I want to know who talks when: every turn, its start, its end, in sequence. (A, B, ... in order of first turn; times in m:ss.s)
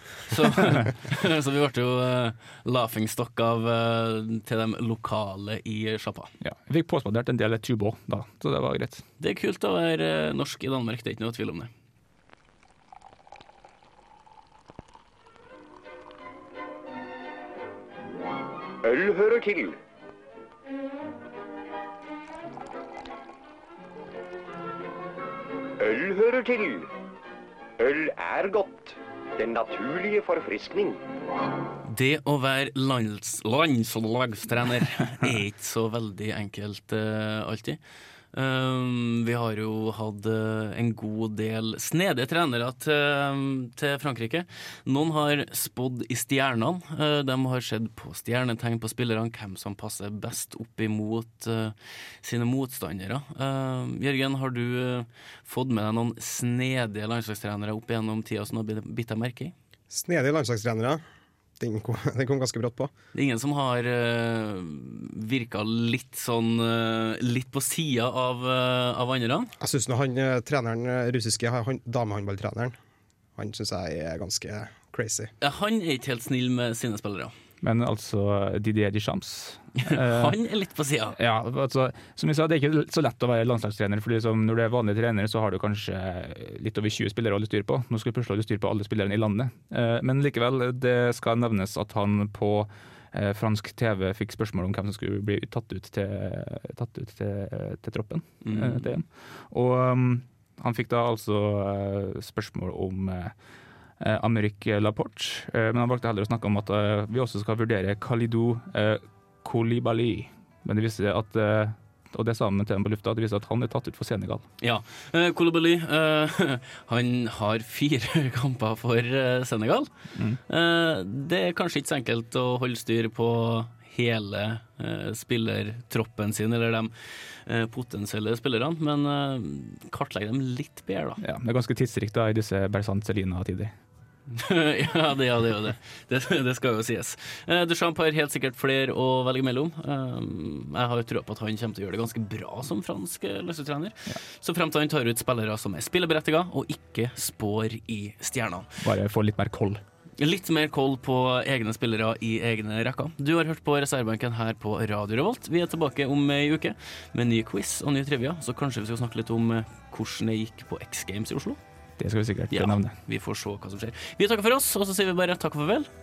0:00.3-0:06.3 A
0:06.4-0:09.0 B
0:09.2-0:11.7 A
0:18.8-0:19.8 C
0:25.8-0:26.9 C
0:27.8-0:31.0 C
0:31.9-0:37.8 A
0:38.3-0:59.5 A
0:59.9-1:01.0 D
1:01.6-1:02.9 D
1:03.1-1:09.5 A
1:09.6-1:12.7 D
1:13.4-1:15.3 D
1:15.4-1:17.3 A
1:17.6-1:20.4 B
1:19.8-1:21.2 A
1:21.2-1:43.4 B
1:38.4-1:38.9 A
1:44.0-1:54.4 B
1:54.6-1:59.9 A
2:00.2-2:00.4 B
2:00.5-2:06.9 A
2:07.5-2:11.2 A
2:11.2-2:13.7 B
2:14.3-2:28.7 A
2:28.8-2:29.8 B
2:30.2-2:41.6 A
2:42.0-2:43.0 B
2:42.5-2:45.9 A